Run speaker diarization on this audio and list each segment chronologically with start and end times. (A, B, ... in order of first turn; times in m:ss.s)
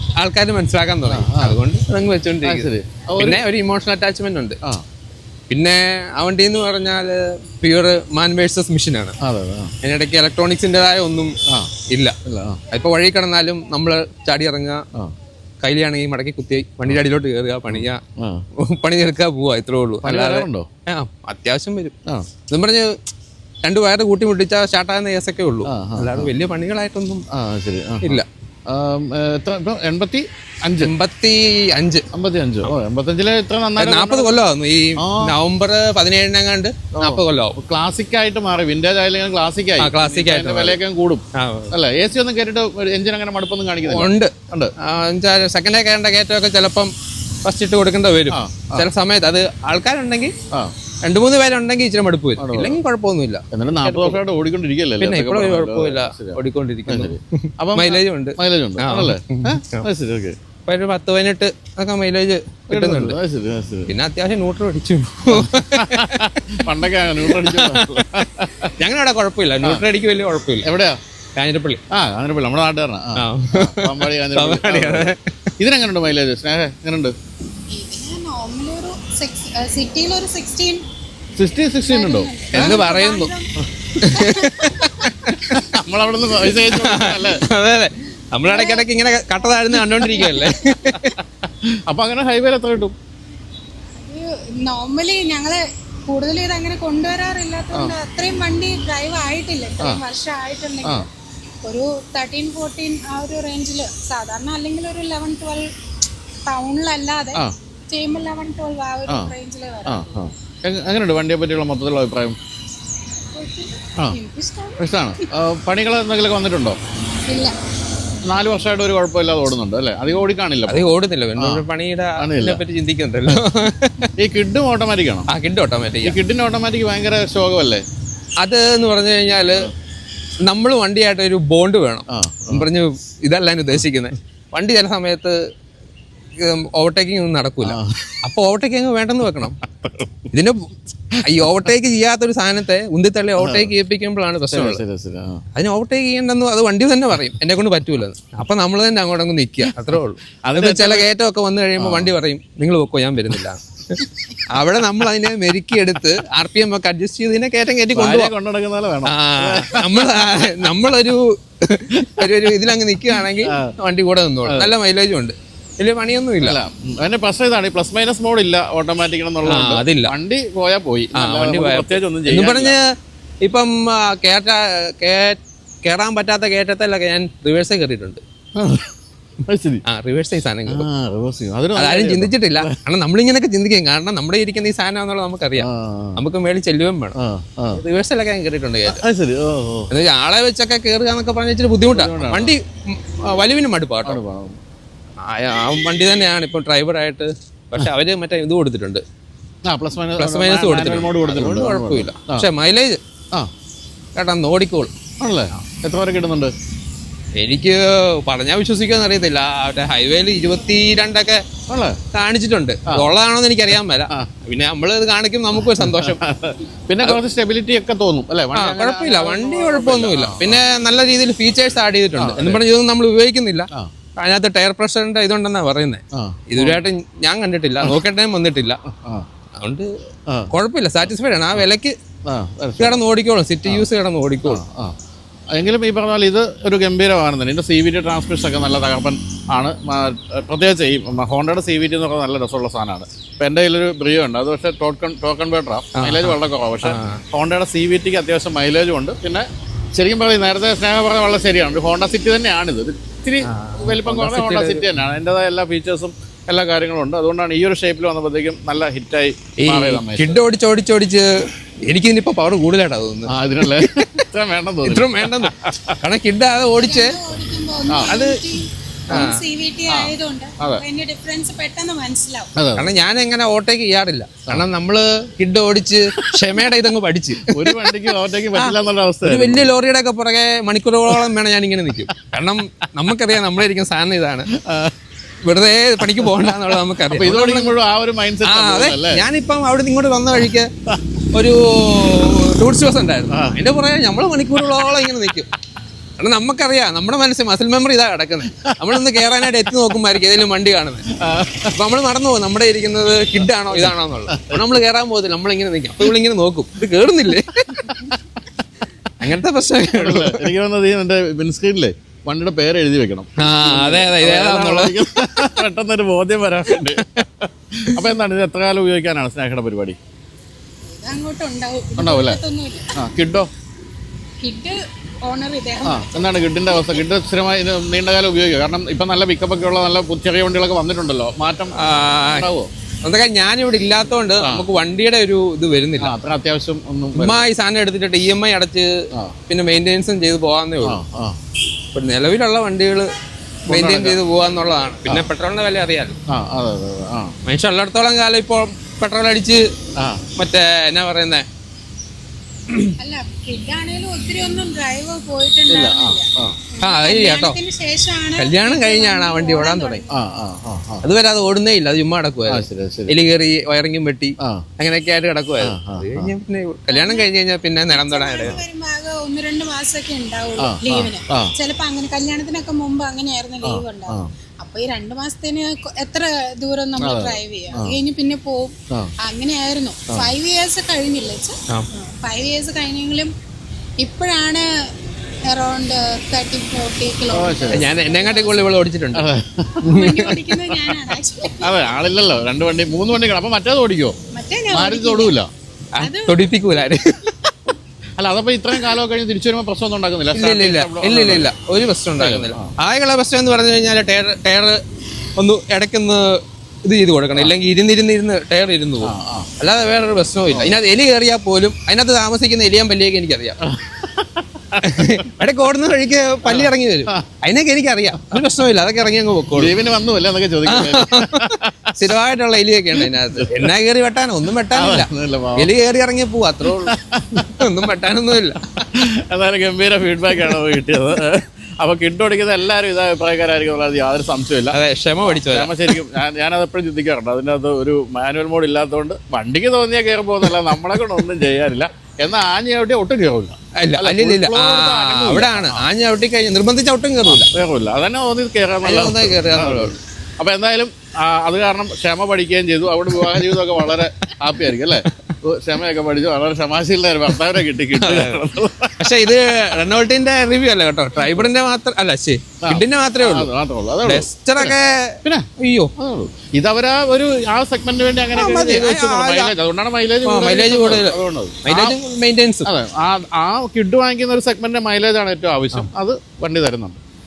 0:00.2-0:04.6 A
0:01.1-0:01.6 B
0:02.4-0:03.4 B
0:05.5-0:09.2 A
0:09.2-0:09.7 B
0:09.8-0:11.3 A
0:11.5-0:11.7 B
0:11.9-0:12.1 A
0:12.3-0:12.6 B
0:12.7-0:14.8 A
0:15.6-0:18.0 A
0:17.7-0:18.4 B
0:18.6-0:22.0 A
0:20.0-0:20.7 B
0:22.5-0:23.0 A
0:23.6-0:27.2 A
0:25.7-0:26.3 B
0:27.3-0:30.9 B
0:30.8-0:32.1 A
0:32.1-0:34.4 B
0:33.8-0:37.6 A
0:35.0-0:35.4 B
0:37.0-0:44.7 B
0:39.8-0:40.8 A
0:41.4-0:41.7 A
0:43.9-0:46.9 A
0:47.4-0:50.3 A
0:48.3-0:48.9 B
0:51.0-0:54.2 A
0:52.4-0:52.8 B
0:53.5-1:00.4 B
0:55.0-0:59.9 A
1:00.7-1:03.2 A
1:02.7-1:03.9 B
1:03.9-1:10.7 A
1:05.3-1:08.8 B
1:09.6-1:09.9 B
1:10.6-1:11.0 B
1:11.4-1:11.8 A
1:11.9-1:17.1 B
1:13.2-1:15.2 A
1:17.7-1:20.8 C
1:21.4-1:22.8 B
1:21.9-1:23.5 C
1:22.5-1:23.3 A
1:24.0-1:25.6 A
1:24.0-1:25.1 C
1:25.6-1:27.4 B
1:26.5-1:31.2 A
1:28.5-1:28.9 C
1:29.4-1:31.1 C
1:31.6-1:33.0 B
1:34.0-1:41.1 C
1:41.6-1:45.7 C
1:46.5-1:50.3 C
1:49.9-1:52.4 B
1:53.3-1:55.3 C
1:54.8-1:56.8 B
1:57.3-1:57.6 C
1:58.3-2:01.6 B
2:00.7-2:04.1 A
2:02.2-2:02.6 B
2:04.2-2:05.3 B
2:05.3-2:06.2 A
2:06.0-2:07.8 B
2:08.4-2:09.7 A
2:10.4-2:15.4 A
2:12.1-2:12.7 B
2:16.4-2:19.6 A
2:17.6-2:18.2 B
2:19.8-2:20.3 B
2:20.3-2:24.8 A
2:23.4-2:23.7 B
2:24.5-2:25.4 B
2:25.6-2:38.3 A
2:30.4-2:31.1 B
2:31.8-2:32.1 B
2:38.0-2:40.6 B
2:39.0-2:46.6 A
2:42.0-2:42.5 B
2:43.4-2:43.7 B
2:44.4-2:44.7 B
2:46.4-2:52.8 B
2:49.5-2:50.1 A
2:51.2-2:52.9 A
2:53.4-2:58.2 A
2:58.6-2:59.8 B
2:59.9-3:00.9 A
3:00.7-3:02.8 B
3:01.8-3:07.2 A
3:05.6-3:06.2 B
3:07.2-3:07.8 B
3:07.7-3:09.0 A
3:08.9-3:09.9 B
3:09.9-3:14.2 A
3:11.9-3:12.5 B
3:14.0-3:14.6 B
3:15.2-3:19.0 A
3:19.7-3:22.5 B
3:20.2-3:23.0 A
3:24.2-3:24.9 A
3:25.2-3:26.5 B
3:27.4-3:31.4 A
3:31.7-3:32.0 B
3:32.1-3:36.2 A
3:35.6-3:40.6 B
3:38.5-3:48.8 A
3:42.2-3:42.6 B
3:46.1-3:46.8 B
3:48.9-3:49.3 B
3:49.6-3:49.9 A
3:50.3-3:50.5 B
3:50.5-3:52.0 A
3:52.3-3:53.0 B
3:52.8-3:54.6 A
3:54.4-3:55.0 B
3:55.5-4:20.4 B
4:06.0-4:07.2 A
4:13.4-4:14.9 A
4:19.6-4:24.3 A
4:23.3-4:26.0 B
4:24.8-4:27.2 A
4:26.8-4:32.5 C
4:27.9-4:28.2 B
4:28.0-4:28.4 A
4:29.9-4:30.8 B
4:32.6-4:33.0 B
4:32.8-4:44.5 A
4:37.4-4:39.7 B
4:44.5-4:45.0 B
4:45.4-4:47.8 A
4:46.0-4:46.5 B
4:47.1-4:49.2 B
4:48.4-4:50.7 A
4:51.3-4:55.5 A
4:53.3-4:53.6 B
4:56.2-5:01.1 A
4:58.6-4:59.7 B
5:01.2-5:01.7 B
5:01.7-5:08.0 A
5:03.7-5:04.6 B
5:07.9-5:08.2 B
5:09.2-5:10.5 A
5:09.9-5:20.0 B
5:13.4-5:15.6 A
5:16.8-5:17.2 A
5:20.8-5:22.9 C
5:22.0-5:22.4 B
5:23.0-5:23.5 B
5:24.4-5:26.9 C
5:25.8-5:32.7 B
5:31.8-5:32.5 A
5:33.0-5:36.1 A
5:34.4-5:34.7 B
5:36.0-5:37.4 B
5:37.2-5:41.0 A
5:40.8-5:41.4 B
5:41.9-5:43.1 A
5:43.7-5:46.2 A
5:43.7-5:44.2 B
5:46.3-5:47.4 B
5:47.5-5:49.6 A
5:50.0-5:50.2 B
5:50.4-5:51.5 A
5:53.0-6:00.2 C
5:55.7-5:56.6 B
5:56.8-5:57.6 A
5:58.4-6:00.0 A
6:00.1-6:01.0 B
6:01.0-6:08.6 A
6:02.5-6:03.2 B
6:04.4-6:04.7 B
6:05.6-6:06.3 B
6:06.9-6:07.3 C
6:07.9-6:23.3 C
6:10.6-6:11.5 B
6:13.6-6:14.3 B
6:17.0-6:18.0 B
6:24.0-6:24.6 C
6:25.5-6:28.7 C
6:27.3-6:27.9 B
6:27.7-6:29.3 A
6:29.2-6:29.9 B
6:29.8-6:31.8 C
6:29.9-6:31.1 A
6:31.6-6:34.2 B
6:34.3-6:35.4 C
6:34.7-6:35.5 B
6:36.0-6:37.2 A
6:36.0-6:36.6 C
6:38.2-6:41.5 B
6:40.3-6:44.8 A
6:42.2-6:42.7 B
6:45.4-6:53.6 A
6:49.0-6:49.5 B
6:53.6-6:55.2 B
6:54.8-6:59.7 A
6:56.4-6:57.2 B
6:59.6-7:02.0 B
7:00.6-7:06.9 A
7:03.0-7:03.7 B
7:04.7-7:05.7 B
7:06.6-7:07.6 B
7:07.5-7:08.7 A
7:08.8-7:25.8 B
7:14.7-7:15.9 A
7:23.8-7:27.5 A
7:27.2-7:39.8 B
7:28.8-7:30.0 A
7:38.0-7:38.4 A
7:39.0-7:43.5 A
7:41.2-7:41.5 B
7:42.6-7:52.0 B
7:44.0-7:45.9 A
7:48.4-7:49.5 A
7:50.2-7:52.7 A
7:52.6-7:57.0 B